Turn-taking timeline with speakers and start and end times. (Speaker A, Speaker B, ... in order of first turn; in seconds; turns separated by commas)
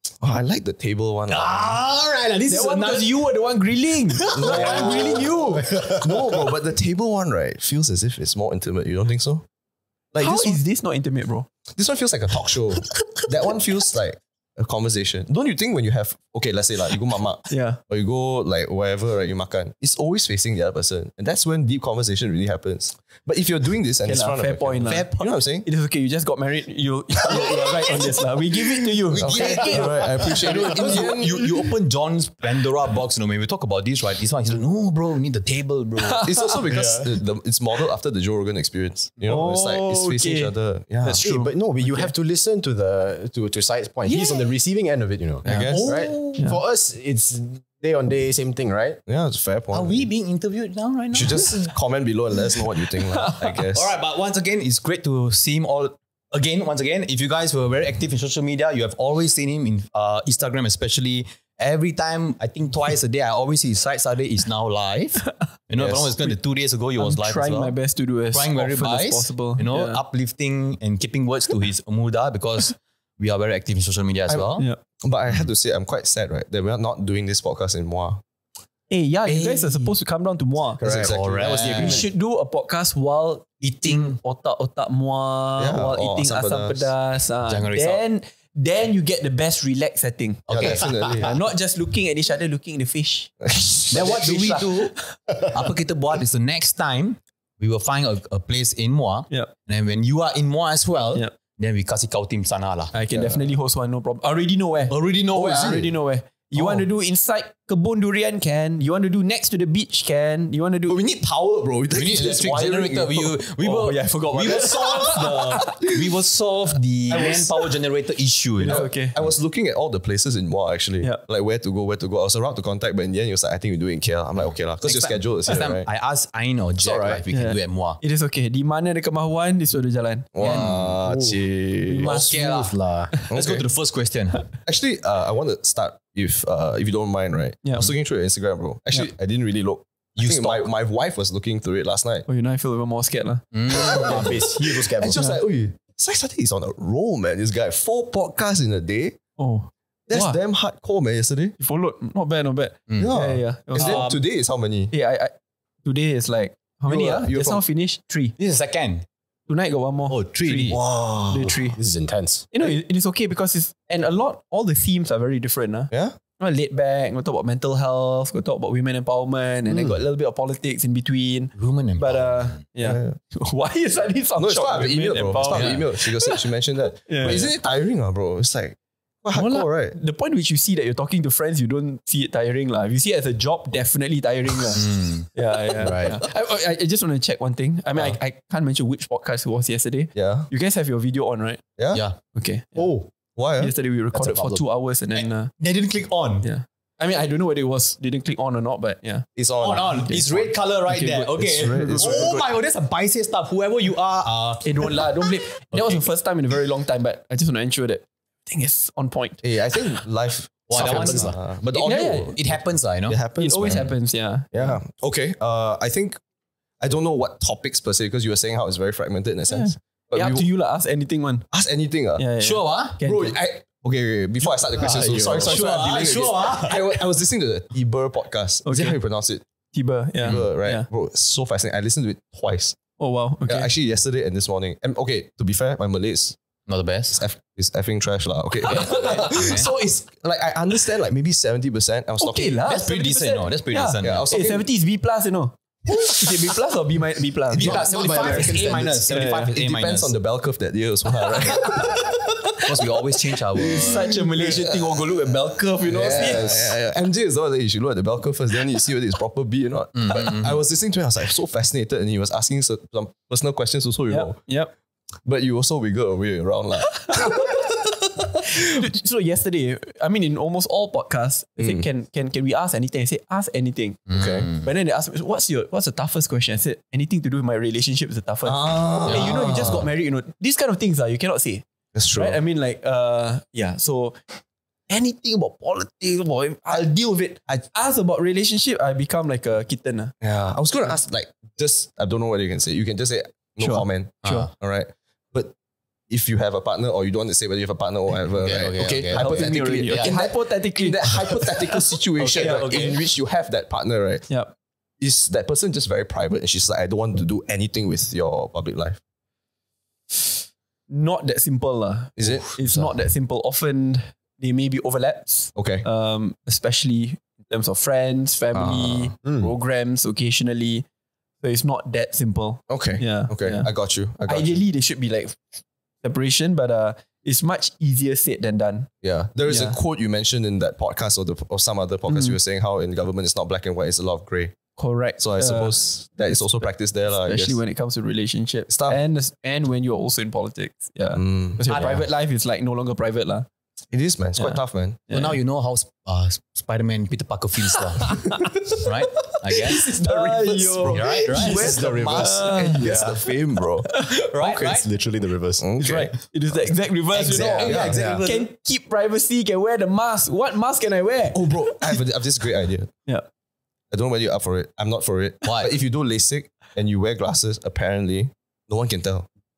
Speaker A: 0.2-1.8, Speaker B: 1.3-3.2, Speaker C: 2.5-5.7, Speaker B: 4.2-5.3, Speaker A: 4.3-9.4, Speaker A: 10.1-10.6, Speaker C: 10.2-11.5, Speaker A: 11.7-25.7, Speaker C: 17.5-17.8, Speaker C: 24.0-31.1, Speaker B: 24.8-25.2, Speaker A: 29.1-31.5, Speaker B: 29.2-37.0, Speaker C: 36.0-36.7, Speaker A: 36.2-41.2, Speaker C: 39.2-42.1, Speaker D: 41.1-49.0, Speaker C: 44.1-44.5, Speaker A: 45.4-45.9, Speaker B: 45.4-46.4, Speaker A: 49.0-50.1, Speaker B: 49.7-51.7, Speaker A: 51.1-53.9, Speaker C: 53.1-53.6, Speaker B: 53.7-67.8, Speaker A: 65.8-66.1, Speaker C: 67.0-70.0, Speaker B: 68.3-74.7, Speaker A: 74.3-78.2, Speaker C: 78.9-95.1, Speaker B: 79.2-80.0, Speaker A: 80.8-82.1, Speaker B: 80.8-82.1, Speaker B: 83.6-84.2, Speaker A: 85.6-86.9, Speaker B: 87.5-88.0, Speaker B: 90.5-91.3, Speaker A: 90.5-91.3, Speaker A: 93.4-93.9, Speaker B: 93.9-102.9, Speaker C: 102.9-111.0, Speaker A: 103.1-103.5, Speaker B: 104.9-105.9, Speaker A: 105.5-105.9, Speaker B: 106.5-106.8, Speaker A: 110.9-113.4, Speaker B: 111.9-119.3, Speaker C: 113.6-115.9, Speaker C: 117.1-117.7, Speaker C: 118.6-119.2, Speaker A: 118.6-125.9, Speaker B: 124.8-128.0, Speaker A: 126.8-127.2, Speaker C: 127.3-130.7, Speaker A: 130.3-132.2, Speaker B: 130.4-130.9, Speaker D: 131.0-131.4, Speaker C: 131.9-133.3, Speaker D: 132.0-133.1, Speaker B: 132.0-134.4, Speaker A: 133.3-133.6, Speaker A: 134.6-142.3, Speaker C: 137.6-137.9, Speaker B: 140.2-140.7, Speaker C: 142.3-143.4, Speaker B: 143.5-144.4, Speaker A: 143.7-149.2, Speaker D: 143.7-145.3, Speaker C: 145.0-145.4, Speaker C: 149.4-150.4, Speaker A: 150.1-151.6, Speaker C: 151.6-154.1, Speaker B: 152.9-153.1, Speaker A: 153.0-154.9, Speaker B: 153.7-154.2, Speaker C: 154.9-155.3, Speaker C: 155.8-158.3, Speaker A: 156.9-157.6, Speaker B: 158.4-159.1, Speaker C: 159.5-161.8, Speaker B: 160.1-160.8, Speaker A: 160.7-161.5, Speaker D: 161.8-162.4, Speaker C: 162.5-176.5, Speaker A: 165.9-166.2, Speaker B: 171.6-172.6, Speaker A: 172.8-173.2, Speaker A: 174.3-180.0, Speaker B: 175.5-175.8, Speaker C: 177.0-177.5, Speaker C: 179.3-191.6, Speaker B: 184.7-185.3, Speaker A: 185.8-186.2, Speaker A: 190.1-190.5, Speaker A: 191.8-192.0, Speaker B: 191.9-192.2, Speaker C: 192.3-195.6, Speaker A: 192.8-193.7, Speaker D: 194.3-194.6, Speaker B: 195.1-196.5, Speaker C: 196.4-199.2, Speaker A: 199.3-200.5, Speaker B: 199.6-206.0, Speaker C: 199.9-202.5, Speaker A: 201.3-202.4, Speaker C: 204.6-210.0, Speaker A: 209.4-213.9, Speaker B: 210.7-213.9, Speaker D: 210.8-211.3, Speaker C: 211.8-212.4, Speaker C: 213.4-214.5, Speaker A: 214.5-216.2, Speaker A: 216.8-220.5, Speaker C: 219.5-221.5, Speaker A: 221.5-222.2, Speaker C: 222.2-223.4, Speaker B: 222.4-223.0, Speaker A: 223.0-229.4, Speaker D: 224.8-225.5, Speaker B: 224.9-227.0, Speaker C: 228.6-229.0, Speaker C: 229.7-230.9, Speaker A: 230.2-232.8, Speaker B: 230.2-230.5, Speaker C: 233.0-233.7, Speaker A: 233.4-236.4, Speaker B: 236.7-237.2, Speaker A: 237.1-242.7, Speaker C: 238.7-239.6, Speaker B: 238.7-239.7, Speaker C: 242.2-248.4, Speaker B: 242.6-244.3, Speaker A: 244.0-244.7, Speaker B: 247.5-250.1, Speaker D: 247.6-249.4, Speaker A: 247.6-248.8, Speaker C: 249.1-249.5, Speaker A: 249.5-252.9, Speaker C: 251.3-252.0, Speaker B: 252.6-254.2, Speaker A: 253.5-254.6, Speaker C: 253.5-256.7, Speaker A: 255.8-264.5, Speaker B: 259.9-260.6, Speaker C: 264.1-264.7, Speaker A: 265.2-267.9, Speaker C: 267.1-267.4, Speaker C: 268.6-281.6, Speaker A: 271.6-271.9, Speaker B: 274.1-274.7, Speaker A: 274.1-274.5, Speaker A: 278.4-279.9, Speaker B: 279.1-279.8, Speaker A: 281.9-282.4, Speaker C: 282.1-284.3, Speaker C: 284.9-290.1, Speaker A: 290.2-295.5, Speaker C: 293.6-294.5, Speaker B: 294.2-294.5, Speaker A: 296.1-304.3, Speaker D: 298.4-299.2, Speaker B: 298.4-300.1, Speaker C: 299.1-301.8, Speaker B: 302.2-303.0, Speaker C: 302.4-302.8, Speaker A: 305.0-309.0, Speaker C: 310.9-320.8, Speaker A: 312.2-312.6, Speaker A: 315.5-315.9, Speaker A: 318.5-319.5, Speaker C: 321.4-323.7, Speaker A: 322.7-324.6, Speaker C: 324.2-325.4, Speaker C: 326.0-328.9, Speaker A: 329.0-334.6, Speaker C: 329.4-329.8, Speaker C: 332.1-332.4, Speaker C: 334.8-343.5, Speaker A: 335.2-337.6, Speaker A: 338.7-339.0, Speaker A: 341.1-342.0, Speaker B: 341.7-342.0, Speaker A: 343.9-345.0, Speaker C: 344.4-345.4, Speaker B: 345.1-349.9, Speaker C: 348.0-348.5, Speaker A: 349.6-354.5, Speaker C: 349.6-353.3, Speaker B: 350.9-353.0, Speaker C: 353.8-354.2, Speaker B: 354.1-354.9, Speaker D: 354.4-355.6, Speaker A: 355.6-356.1, Speaker C: 355.8-362.0, Speaker B: 357.1-358.4, Speaker D: 357.1-358.2, Speaker A: 357.2-358.2, Speaker A: 361.3-362.9, Speaker A: 363.9-369.3, Speaker B: 365.4-365.7